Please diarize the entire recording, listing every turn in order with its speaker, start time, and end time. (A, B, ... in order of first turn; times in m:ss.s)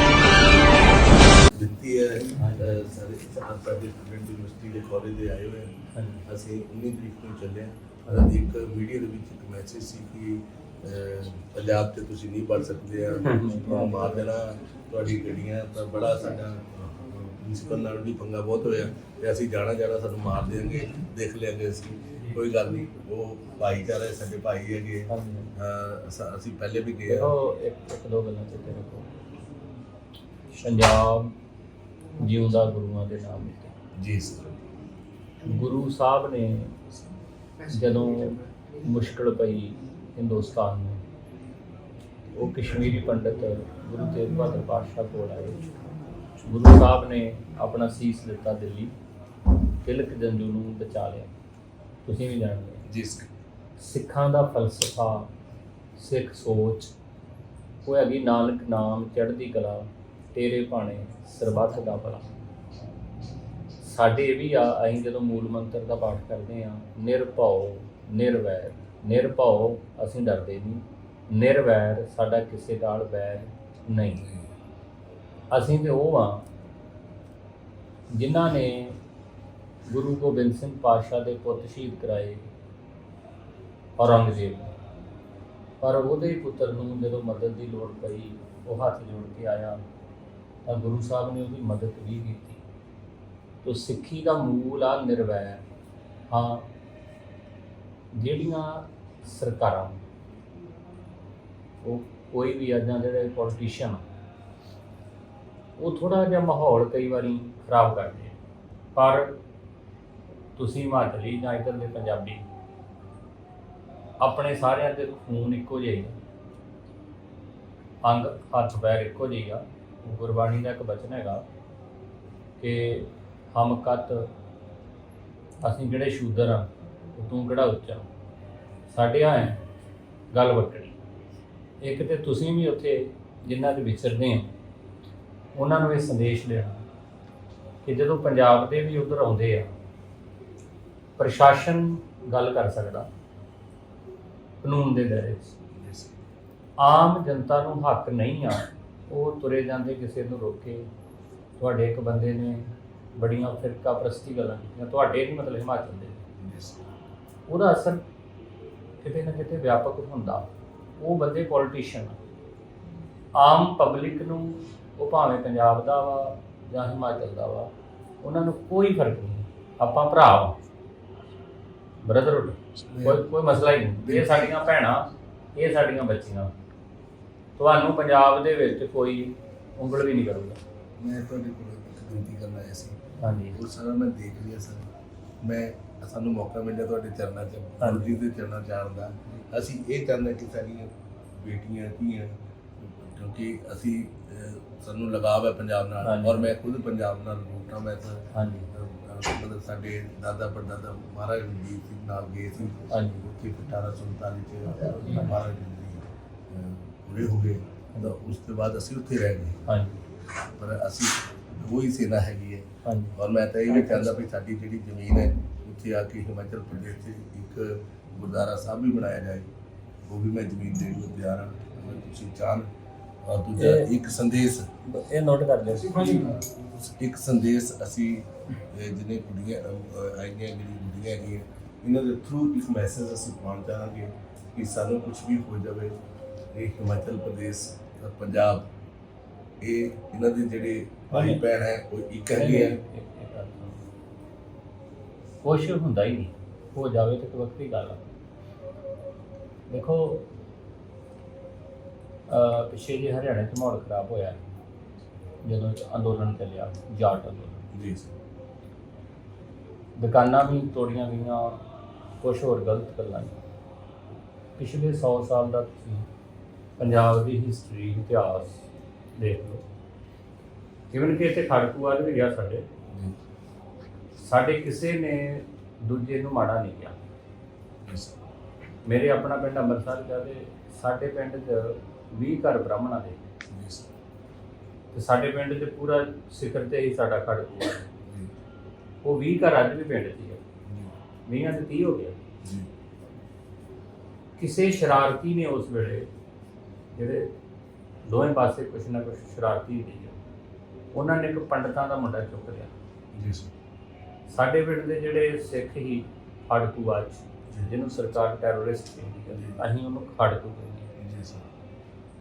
0:01.5-0:27.4 A
0:02.4-0:02.8 B
0:05.9-0:06.2 B
0:13.2-0:14.2 B
0:25.1-0:25.5 B
0:27.1-0:29.1 B
0:30.5-0:31.4 B
0:32.2-0:33.7 B
0:34.0-0:34.5 A
0:35.4-0:36.8 B
0:37.7-0:41.0 B
0:42.4-0:42.8 A
0:42.4-0:45.6 B
0:46.4-0:49.0 B
0:49.8-0:51.3 B
0:52.0-0:52.8 B
0:52.9-0:53.3 A
0:53.8-0:55.3 B
0:56.0-0:56.9 B
0:57.8-1:02.3 B
1:03.8-1:14.2 B
1:14.2-1:14.5 A
1:15.5-1:16.4 B
1:18.1-1:19.0 B
1:19.9-1:22.5 B
1:24.0-1:24.7 B
1:25.8-1:29.8 B
1:30.7-1:32.6 B
1:33.6-1:35.6 B
1:36.3-1:36.7 B
1:38.1-1:40.0 B
1:41.8-1:44.0 B
1:45.8-1:48.4 B
1:48.9-1:49.4 B
1:50.6-1:52.5 B
1:54.2-1:56.2 B
1:58.0-2:01.4 B
2:02.6-2:04.3 B
2:05.6-2:08.1 B
2:08.9-2:09.6 B
2:10.3-2:11.0 B
2:11.8-2:14.5 B
2:15.5-2:16.8 B
2:17.8-2:19.7 B
2:21.2-2:23.1 B
2:24.6-2:25.5 B
2:25.8-2:26.1 A
2:26.8-2:30.9 B
2:31.6-2:36.2 B
2:36.4-2:36.8 A
2:37.5-2:38.0 B
2:39.0-2:42.2 B
2:43.4-2:47.7 B
2:48.2-2:50.6 B
2:52.0-2:56.5 B
2:52.8-2:53.2 A
2:54.0-2:54.6 A
2:57.6-3:00.6 B
3:01.0-3:03.0 A
3:03.2-3:03.6 B
3:03.5-3:04.9 A
3:05.4-3:29.6 A
3:07.8-3:08.2 B
3:16.0-3:16.5 B
3:18.3-3:18.7 B
3:22.9-3:23.2 B
3:25.0-3:25.4 B
3:29.7-3:30.0 B
3:30.4-3:39.5 A
3:32.8-3:33.1 B
3:33.7-3:34.1 B
3:40.0-3:42.7 A
3:43.2-3:44.7 A
3:43.6-3:43.9 B
3:44.8-3:46.4 B
3:46.8-3:56.0 A
3:56.5-3:58.7 A
3:59.6-4:02.8 A
4:01.1-4:01.4 B
4:02.3-4:03.8 B
4:05.4-4:08.1 B
4:09.7-4:10.3 B
4:12.3-4:14.4 B
4:15.4-4:17.6 B
4:17.7-4:18.1 A
4:20.0-4:21.6 B
4:22.2-4:23.4 B
4:24.6-4:26.1 B
4:26.8-4:29.6 B
4:30.9-4:32.7 B
4:34.2-4:37.0 B
4:37.9-4:38.1 A
4:38.8-4:43.2 B
4:43.5-4:43.9 A
4:44.9-4:47.9 B
4:49.0-4:50.4 B
4:51.3-4:52.2 B
4:52.4-4:52.7 A
4:54.4-4:56.1 B
4:56.9-4:57.3 B
4:58.0-5:00.2 B
5:00.9-5:02.7 B
5:03.1-5:03.5 A
5:04.3-5:10.9 B
5:09.3-5:09.6 A
5:11.0-5:11.4 A